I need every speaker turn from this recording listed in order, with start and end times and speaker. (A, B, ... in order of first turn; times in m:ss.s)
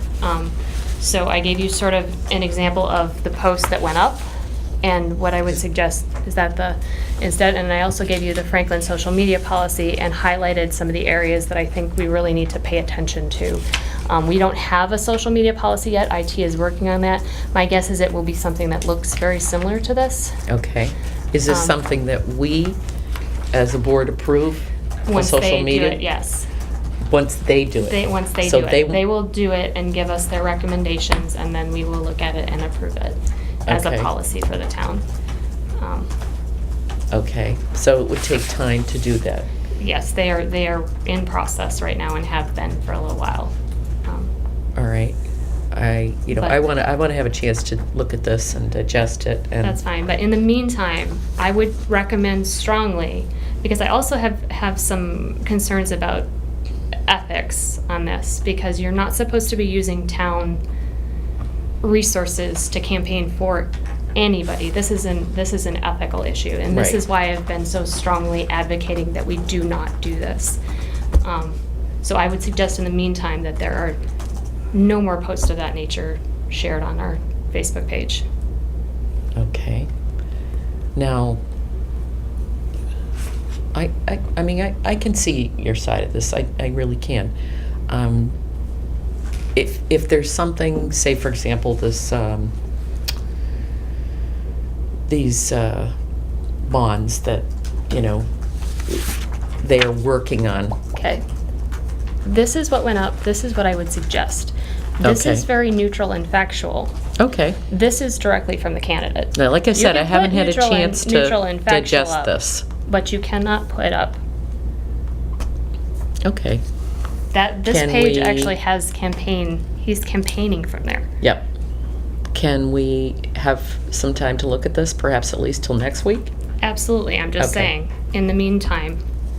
0:00.2-0:04.2 A
0:04.8-0:20.4 A
0:20.5-0:22.8 B
0:21.5-0:21.8 A
0:23.5-0:26.0 B
0:25.1-0:26.5 A
0:27.1-0:29.1 B
0:27.9-0:35.0 A
0:33.7-0:34.1 B
0:35.8-0:36.1 A
0:37.1-0:39.5 B
0:39.8-0:44.3 A
0:44.8-0:45.2 B
0:45.7-0:49.8 B
0:49.6-0:56.3 A
0:57.1-1:00.6 A
1:01.8-1:10.6 A
1:06.7-1:07.0 B
1:11.2-1:14.0 A
1:14.7-1:18.2 A
1:19.4-1:19.9 B
1:21.0-1:21.4 B
1:23.7-1:27.3 B
1:27.9-1:28.4 B
1:29.6-1:32.6 B
1:35.1-1:35.9 B
1:36.6-1:38.3 B
1:39.6-1:40.8 B
1:40.9-1:41.2 A
1:42.2-1:47.0 A
1:45.0-1:45.5 B
1:47.2-1:47.6 B
1:47.7-1:52.3 A
1:49.4-1:52.7 B
1:52.8-1:54.2 A
1:56.2-1:56.6 B
1:57.3-2:01.1 A
1:57.7-1:58.6 B
2:02.3-2:06.3 B
2:06.6-2:09.0 A
2:07.4-2:07.7 B